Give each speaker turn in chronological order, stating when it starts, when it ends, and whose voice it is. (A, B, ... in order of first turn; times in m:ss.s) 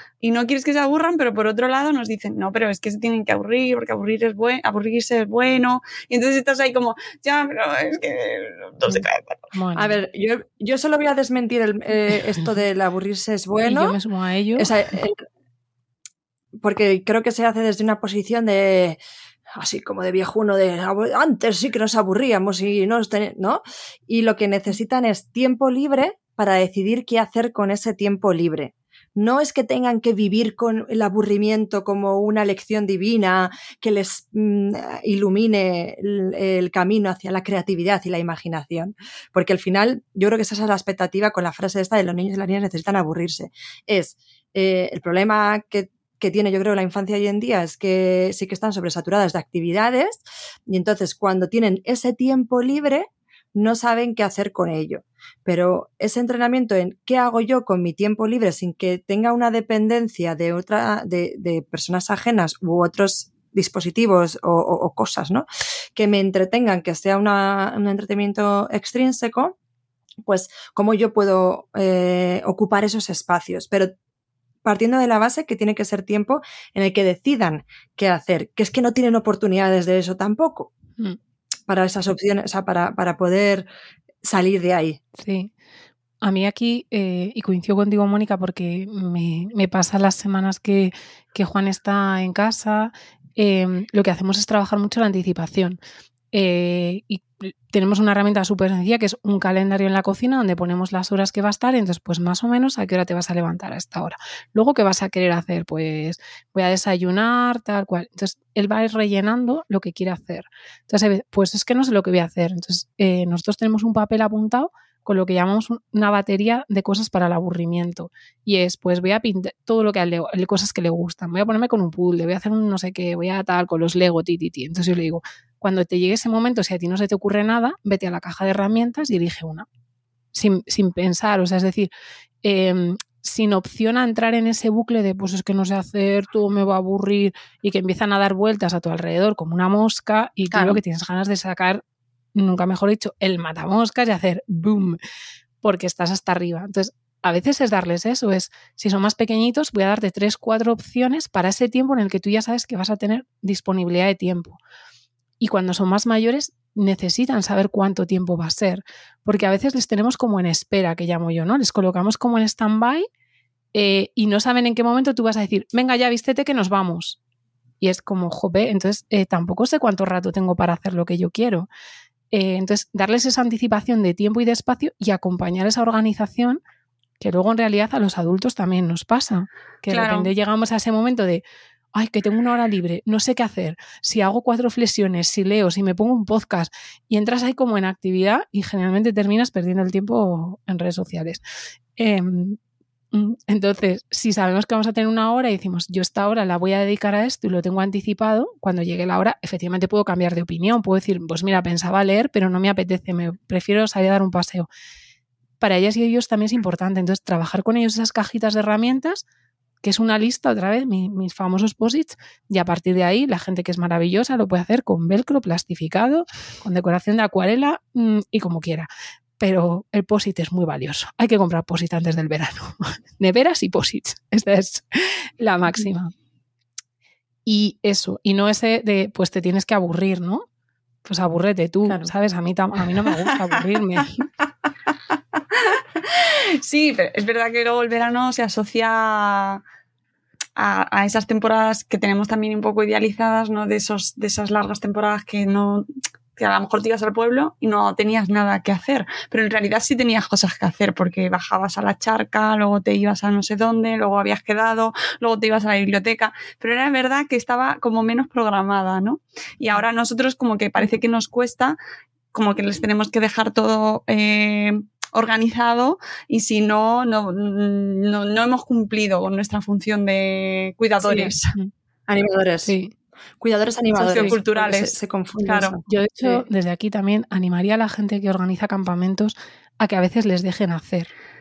0:00.2-0:09.4 A
0:08.9-0:10.0 B
0:09.7-0:14.0 C
0:13.6-0:14.7 B
0:14.6-0:15.2 C
0:16.6-0:19.0 C
0:19.5-1:09.6 C
1:10.2-1:13.9 C
1:14.6-1:20.7 C
1:21.7-1:23.7 C
1:24.2-1:25.0 C
1:25.2-1:25.5 B
1:26.2-1:35.8 B
1:36.3-2:09.7 B
2:10.3-2:11.9 B
2:12.4-2:21.8 B
2:22.4-2:25.0 B
2:25.6-2:34.6 B
2:35.4-2:43.1 B
2:43.7-2:47.2 B
2:47.8-2:51.7 B
2:52.3-2:56.6 B
2:57.2-3:11.4 B
2:59.9-3:00.3 A
3:12.0-3:12.6 B
3:13.1-3:24.7 B
3:25.6-3:29.2 B
3:29.8-3:38.9 B
3:39.4-3:46.1 B
3:47.4-3:50.4 B
3:51.0-3:54.1 B
3:55.6-3:59.6 A
4:00.6-4:21.8 A
4:22.3-4:31.5 A
4:31.0-4:31.3 C
4:32.1-4:32.7 C
4:32.6-4:32.9 B
4:33.4-4:36.4 C
4:33.9-4:35.8 A
4:35.9-4:41.1 B